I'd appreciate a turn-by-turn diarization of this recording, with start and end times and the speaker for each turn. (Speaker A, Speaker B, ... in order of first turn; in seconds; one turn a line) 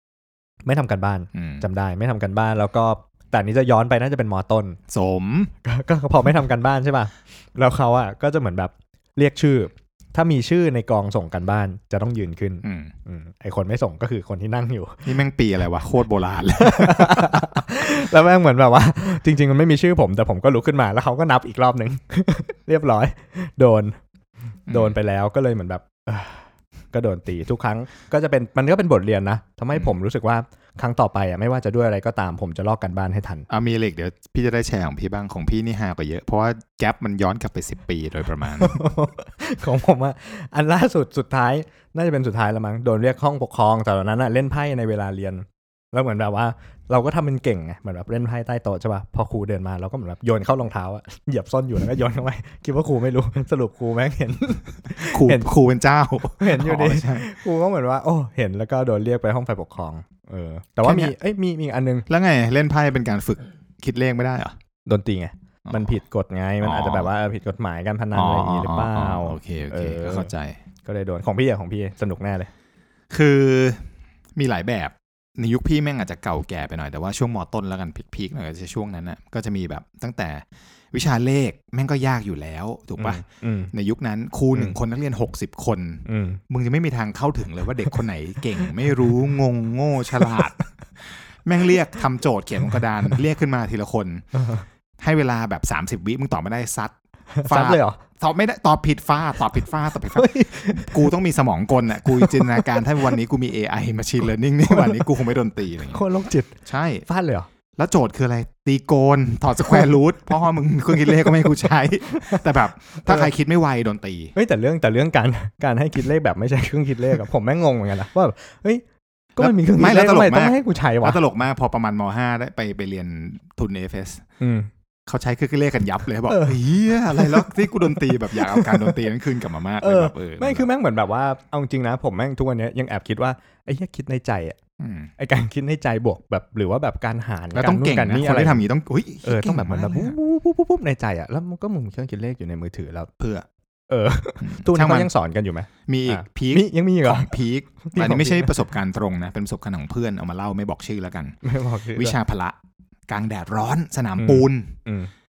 Speaker A: 0.7-4.8
Speaker B: 1.3-1.7
Speaker B: 4.9-5.5
Speaker A: 5.6-15.1
Speaker B: 12.6-12.9
Speaker B: 15.0-17.6
Speaker A: 16.6-24.0
Speaker A: 24.7-33.5
Speaker B: 24.7-24.9
Speaker B: 33.5-38.8
Speaker A: 38.6-55.5
Speaker B: 55.1-57.3
Speaker A: 56.4-62.0
Speaker B: 60.8-61.1
Speaker B: 62.1-64.5
Speaker A: 64.8-70.3
Speaker B: 65.7-65.9
Speaker B: 66.6-67.1
Speaker B: 68.1-70.6
Speaker A: 70.8-72.5
Speaker B: 73.1-94.4
Speaker A: 83.0-83.7
Speaker A: 86.1-86.4
Speaker A: 88.6-89.0
Speaker A: 90.1-90.6
Speaker B: 95.0-96.9
Speaker A: 97.3-98.0
Speaker B: 97.5-106.0
Speaker A: 100.1-101.0
Speaker A: 102.1-103.1
Speaker A: 104.7-105.0
Speaker A: 105.9-106.5
Speaker B: 106.7-107.1
Speaker A: 107.1-107.5
Speaker B: 107.8-114.3
Speaker A: 111.1-111.4
Speaker A: 112.1-113.3
Speaker A: 114.3-118.8
Speaker A: 119.4-121.2
Speaker B: 119.4-124.2
Speaker A: 124.4-124.7
Speaker B: 125.1-130.7
Speaker A: 126.3-128.9
Speaker A: 129.8-134.6
Speaker B: 134.8-135.1
Speaker A: 135.2-138.6
Speaker B: 137.5-140.2
Speaker A: 139.2-143.1
Speaker B: 143.2-143.4
Speaker A: 143.9-147.3
Speaker B: 144.4-145.1
Speaker B: 145.9-151.4
Speaker A: 147.8-148.5
Speaker A: 151.4-152.2
Speaker B: 151.9-152.6
Speaker B: 153.1-154.8
Speaker A: 154.2-155.1